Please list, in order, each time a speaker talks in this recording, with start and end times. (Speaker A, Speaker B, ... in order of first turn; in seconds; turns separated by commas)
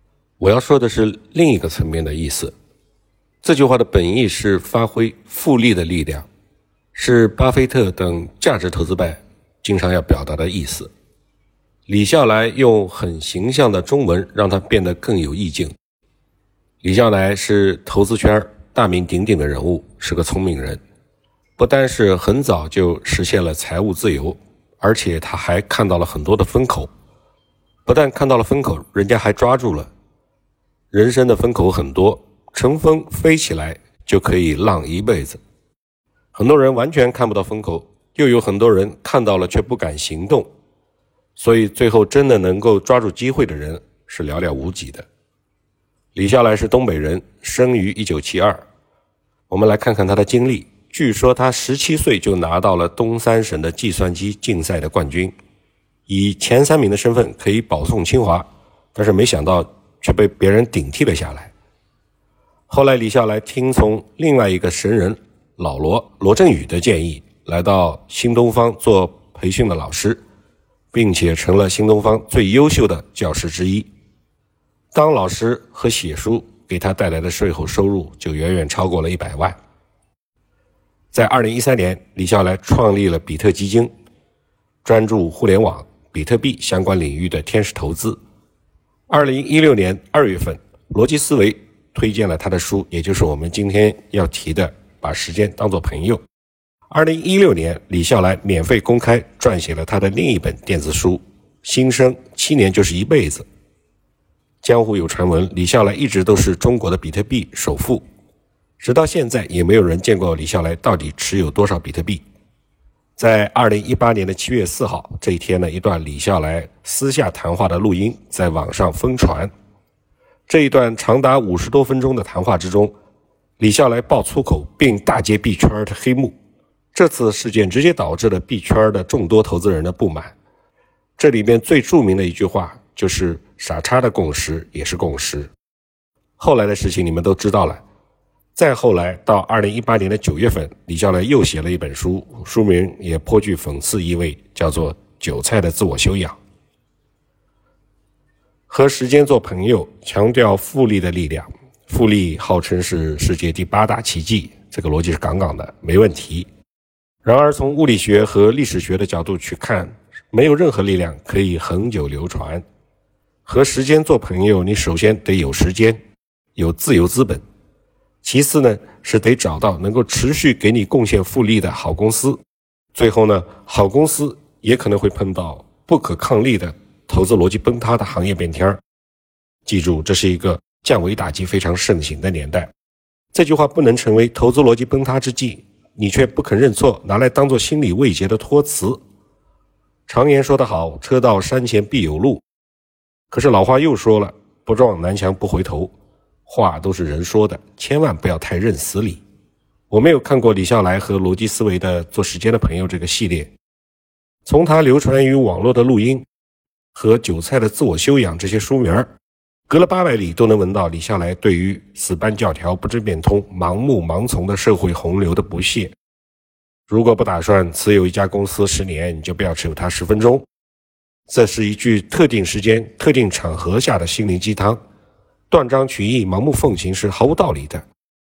Speaker A: 0.4-2.5, Speaker A: 3.4-6.3, Speaker A: 6.9-10.9, Speaker A: 11.9-15.7, Speaker A: 16.8-20.8, Speaker A: 21.6-26.9, Speaker A: 27.9-29.9, Speaker A: 30.9-35.4, Speaker A: 36.3-40.5, Speaker A: 41.4-45.0, Speaker A: 46.1-48.6, Speaker A: 49.5-55.3, Speaker A: 56.1-61.5, Speaker A: 62.7-70.2, Speaker A: 70.9-73.9, Speaker A: 74.9-79.6, Speaker A: 81.1-83.9, Speaker A: 84.8-88.2, Speaker A: 89.1-96.2, Speaker A: 96.9-103.5, Speaker A: 104.6-108.0, Speaker A: 108.8-112.2, Speaker A: 113.2-119.5, Speaker A: 120.5-122.9, Speaker A: 123.6-126.3, Speaker A: 126.9-130.3, Speaker A: 131.2-135.5, Speaker A: 136.4-137.8, Speaker A: 138.6-146.4, Speaker A: 148.7-156.5, Speaker A: 157.2-162.6, Speaker A: 163.4-166.0, Speaker A: 166.6-167.4, Speaker A: 168.2-172.4, Speaker A: 172.9-178.8, Speaker A: 179.7-182.7, Speaker A: 183.3-189.0, Speaker A: 190.1-192.4, Speaker A: 193.3-195.9, Speaker A: 196.5-199.2, Speaker A: 199.9-203.5, Speaker A: 204.4-206.2, Speaker A: 206.9-209.1, Speaker A: 209.7-215.9, Speaker A: 216.9-220.4, Speaker A: 221.3-224.8, Speaker A: 225.5-227.8